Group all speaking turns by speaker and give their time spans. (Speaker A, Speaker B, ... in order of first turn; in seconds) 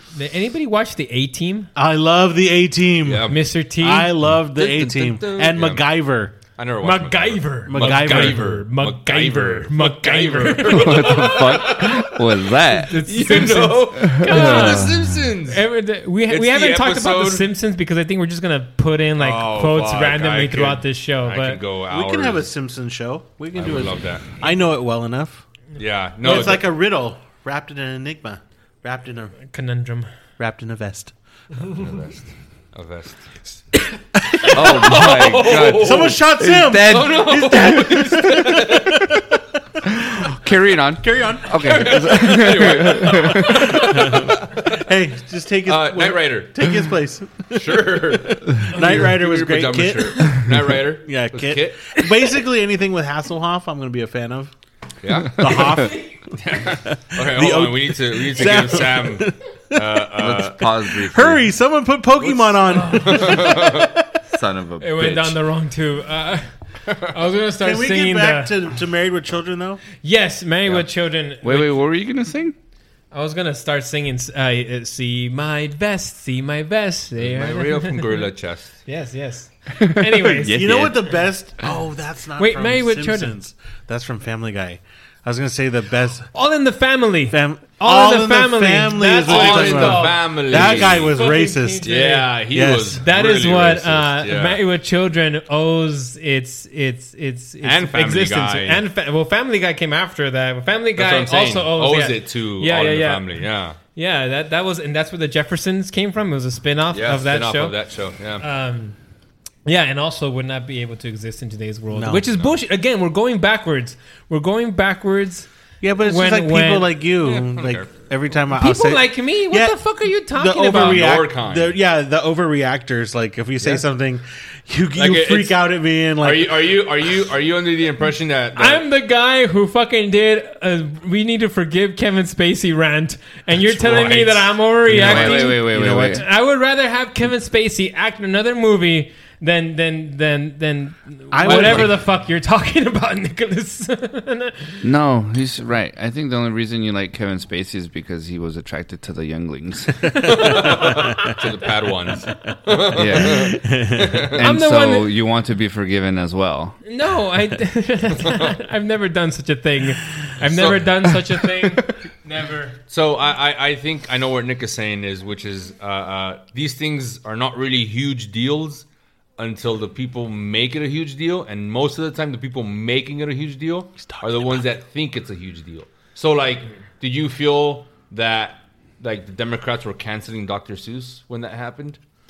Speaker A: 0.1-1.7, 3.3-4.1, 6.8-11.2, 12.9-21.6, 29.5-30.1, 48.7-49.1, 62.8-63.4, 64.8-68.5, 70.0-71.8, 73.1-78.2, 78.8-80.8, 82.4-83.3, 86.3-92.4, 93.0-107.8, 108.4-109.0, 109.7-115.5, 116.0-116.9, 118.5-121.1, 128.5-144.8, 150.8-151.4, 154.4-155.1, 156.8-162.8
Speaker B: 1.8-6.3, 7.7-8.6, 21.9-25.4, 26.2-29.3, 30.4-31.1, 35.6-39.0, 41.0-42.0, 42.7-54.5, 55.3-59.3, 61.0-63.9, 67.6-69.8, 80.5-86.3, 87.3-93.0, 111.9-112.2, 115.8-126.8, 135.1-136.2, 141.3-142.0, 150.4-151.2, 153.2-154.3, 174.0-174.6
Speaker C: 3.0-3.4, 4.5-12.2, 12.9-15.6, 16.3-17.5, 19.1-22.5, 23.5-24.4, 25.8-26.8, 31.7-33.6, 34.4-39.0, 41.6-44.6, 45.6-46.9, 47.5-52.0, 55.0-55.8, 56.4-60.7, 62.2-63.9, 77.2-78.8, 89.2-91.2, 91.8-94.6, 97.6-98.8, 101.0-103.8, 106.9-108.4, 117.2-117.9, 120.7-121.8, 124.9-128.8, 133.7-135.5, 141.4-141.9, 150.3-154.5, 160.4-160.9, 162.9-168.8, 169.4-182.0
Speaker D: 10.7-13.0, 13.9-15.1, 34.4-38.3, 39.9-43.9, 60.2-61.5, 64.2-65.4, 71.4-72.5, 80.1-81.2, 134.9-136.2, 144.8-150.3, 152.9-153.6, 154.4-156.8